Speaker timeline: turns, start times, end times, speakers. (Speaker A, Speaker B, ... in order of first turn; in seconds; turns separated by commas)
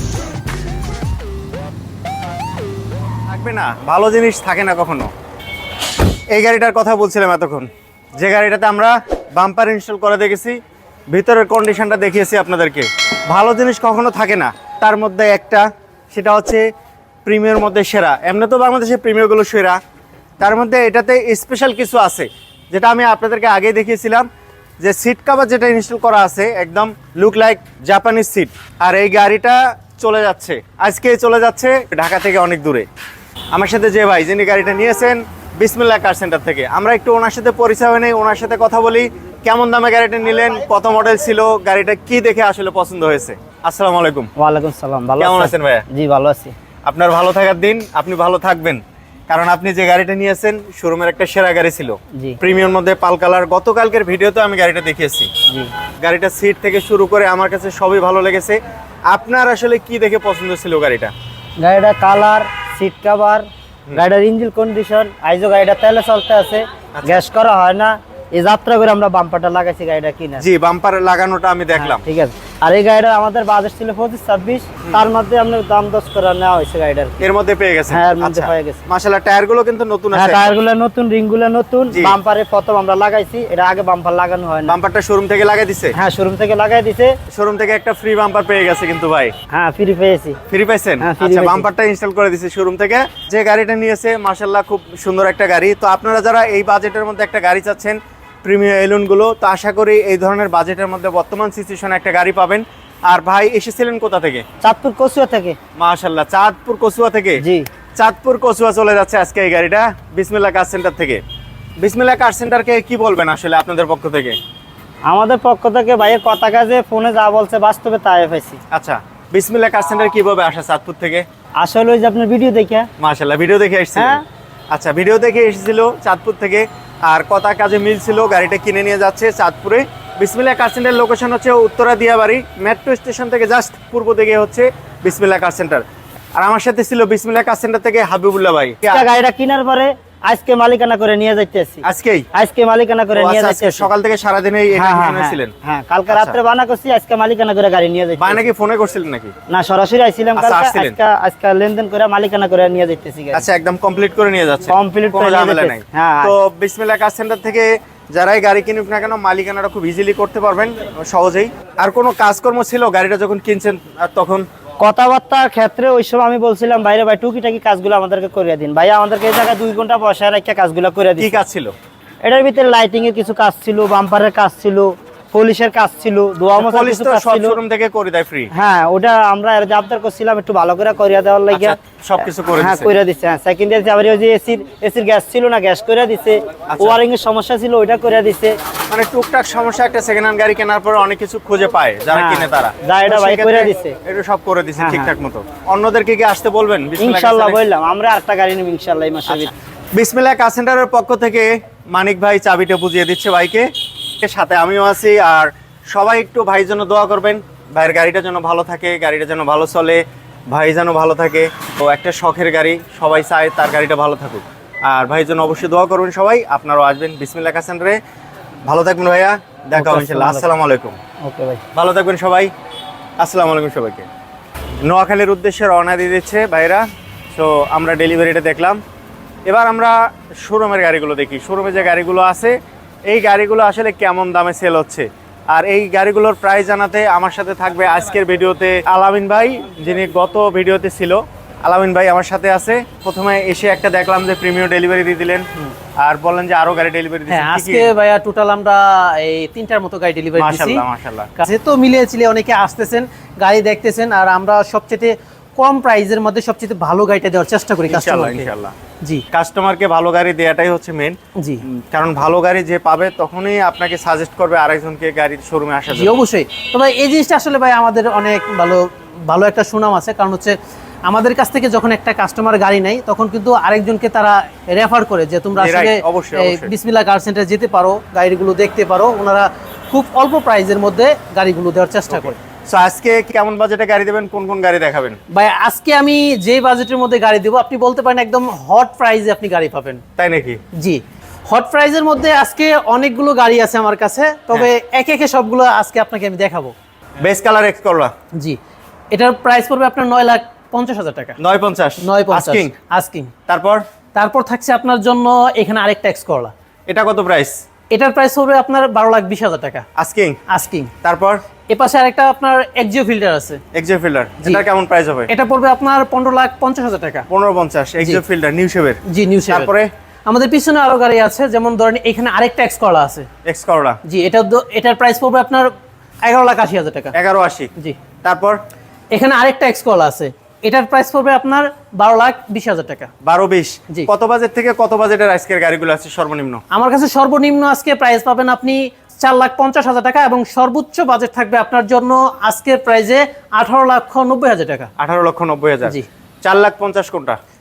Speaker A: 3.3-5.1, Speaker A: 6.3-10.6, Speaker A: 11.1-16.7, Speaker A: 17.2-19.8, Speaker A: 20.4-24.3, Speaker A: 24.8-32.9, Speaker A: 33.5-44.3, Speaker B: 44.4-46.5, Speaker A: 45.2-45.8, Speaker A: 46.9-55.3, Speaker A: 56.0-58.6, Speaker A: 59.1-61.1, Speaker B: 61.6-70.4, Speaker A: 66.9-67.2, Speaker A: 70.4-72.0, Speaker B: 71.8-77.2, Speaker A: 77.2-80.5, Speaker B: 77.9-78.8, Speaker B: 80.1-84.8, Speaker A: 81.9-82.2, Speaker A: 84.7-86.0, Speaker B: 85.9-87.1, Speaker A: 87.3-89.3, Speaker B: 89.5-90.4, Speaker A: 90.5-104.4, Speaker B: 91.0-91.7, Speaker B: 104.6-105.6, Speaker A: 105.8-107.4, Speaker B: 107.4-107.7, Speaker A: 108.0-111.2, Speaker A: 111.8-114.4, Speaker B: 115.1-118.6, Speaker A: 118.7-121.2, Speaker B: 121.6-122.9, Speaker A: 123.0-135.8, Speaker B: 124.0-124.2, Speaker A: 136.3-139.1, Speaker B: 138.9-143.9, Speaker A: 141.8-142.2, Speaker A: 143.1-145.5, Speaker B: 144.8-148.5, Speaker A: 146.1-146.4, Speaker A: 148.2-149.3, Speaker B: 149.5-153.4, Speaker A: 150.3-151.0, Speaker A: 153.3-164.4, Speaker B: 154.7-156.3, Speaker B: 164.8-171.4, Speaker A: 171.2-171.7, Speaker B: 172.2-177.6, Speaker A: 176.5-178.5, Speaker B: 178.5-188.5, Speaker A: 181.5-182.9, Speaker A: 186.7-187.0, Speaker A: 188.9-197.6, Speaker B: 192.1-193.9, Speaker B: 194.8-195.1, Speaker B: 197.0-199.5, Speaker A: 199.3-203.7, Speaker A: 204.2-218.0, Speaker A: 218.7-221.0, Speaker B: 219.8-220.4, Speaker B: 221.2-221.6, Speaker A: 221.8-222.5, Speaker A: 223.2-224.1, Speaker A: 224.8-226.8, Speaker A: 227.3-228.8, Speaker A: 229.5-232.5, Speaker A: 233.1-245.5, Speaker A: 246.0-247.9, Speaker C: 247.3-250.8, Speaker A: 250.4-251.3, Speaker C: 251.4-258.5, Speaker A: 257.9-258.8, Speaker A: 259.3-261.2, Speaker C: 261.4-261.6, Speaker A: 261.7-266.1, Speaker C: 265.9-270.6, Speaker C: 271.1-282.4, Speaker A: 275.6-276.7, Speaker A: 282.1-285.2, Speaker C: 285.3-290.0, Speaker A: 290.2-290.6, Speaker C: 290.8-296.7, Speaker A: 297.2-298.1, Speaker C: 299.1-301.4, Speaker A: 301.4-302.7, Speaker C: 302.0-303.3, Speaker A: 303.5-303.8, Speaker C: 304.1-306.5, Speaker A: 306.9-307.6, Speaker C: 307.9-309.8, Speaker A: 310.0-310.4, Speaker C: 310.5-310.9, Speaker A: 311.0-311.4, Speaker C: 311.7-313.6, Speaker A: 313.7-315.3, Speaker C: 315.3-317.2, Speaker A: 317.3-319.9, Speaker C: 319.1-319.7, Speaker C: 320.3-323.3, Speaker A: 323.4-324.0, Speaker C: 324.1-325.7, Speaker C: 326.2-327.1, Speaker A: 327.1-327.7, Speaker A: 328.2-328.6, Speaker C: 329.1-333.1, Speaker A: 333.2-336.6, Speaker C: 336.7-344.9, Speaker A: 345.0-347.4